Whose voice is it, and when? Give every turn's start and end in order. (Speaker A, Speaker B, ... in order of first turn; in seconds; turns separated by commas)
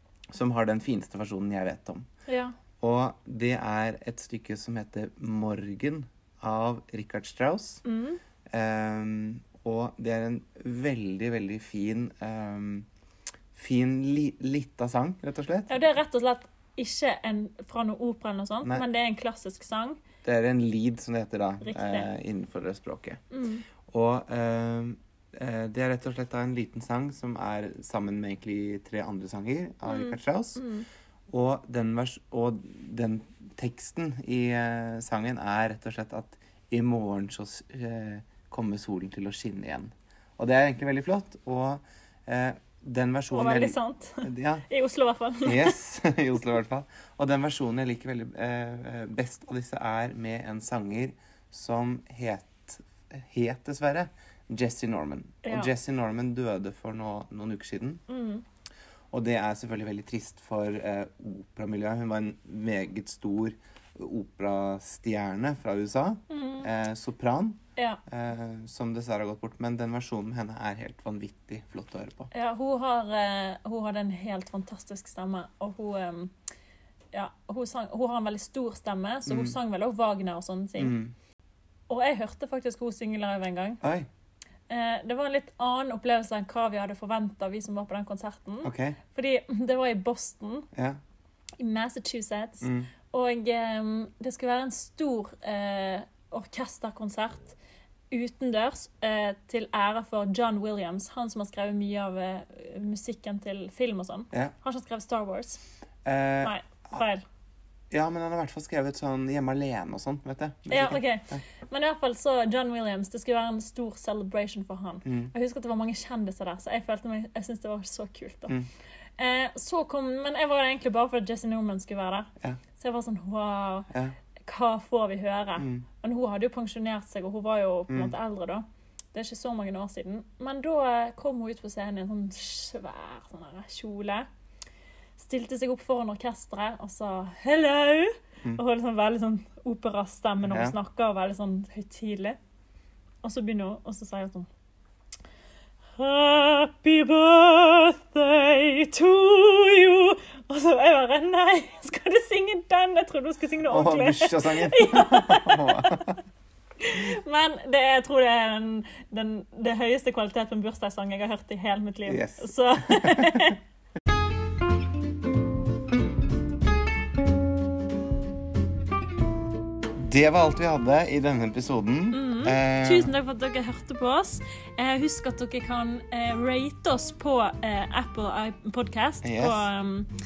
Speaker A: 0.3-2.1, Speaker B: 2.3-2.5, Speaker A: 2.8-7.8, Speaker B: 7.8-8.2, Speaker A: 8.5-12.9, Speaker A: 13.5-15.7, Speaker B: 15.7-20.0, Speaker A: 20.2-23.2, Speaker B: 21.6-22.1, Speaker B: 23.3-23.6, Speaker A: 23.8-30.7, Speaker B: 29.9-30.9, Speaker A: 31.3-44.6, Speaker B: 43.3-45.8, Speaker A: 45.4-58.0, Speaker B: 55.4-55.7, Speaker B: 58.1-58.4, Speaker A: 59.1-72.3, Speaker B: 66.3-66.7, Speaker B: 72.3-76.3, Speaker B: 77.1-81.0, Speaker A: 79.3-79.5, Speaker A: 80.8-81.1, Speaker B: 81.9-83.8, Speaker A: 83.8-84.1, Speaker B: 84.7-90.7, Speaker A: 88.6-89.0, Speaker A: 90.7-91.0, Speaker B: 91.6-97.5, Speaker A: 92.6-92.9, Speaker B: 98.1-105.6, Speaker A: 106.0-107.0, Speaker B: 106.4-107.2, Speaker A: 107.9-111.4, Speaker B: 110.7-118.6, Speaker A: 115.0-115.3, Speaker B: 119.2-123.9, Speaker A: 123.9-124.2, Speaker B: 124.4-134.3, Speaker A: 125.6-125.8, Speaker B: 135.2-142.4, Speaker A: 140.4-140.8, Speaker B: 143.2-144.5, Speaker B: 146.0-156.1, Speaker A: 153.7-156.2, Speaker B: 156.8-163.6, Speaker A: 162.1-163.6, Speaker A: 170.0-173.1, Speaker B: 172.1-180.1, Speaker A: 179.2-179.7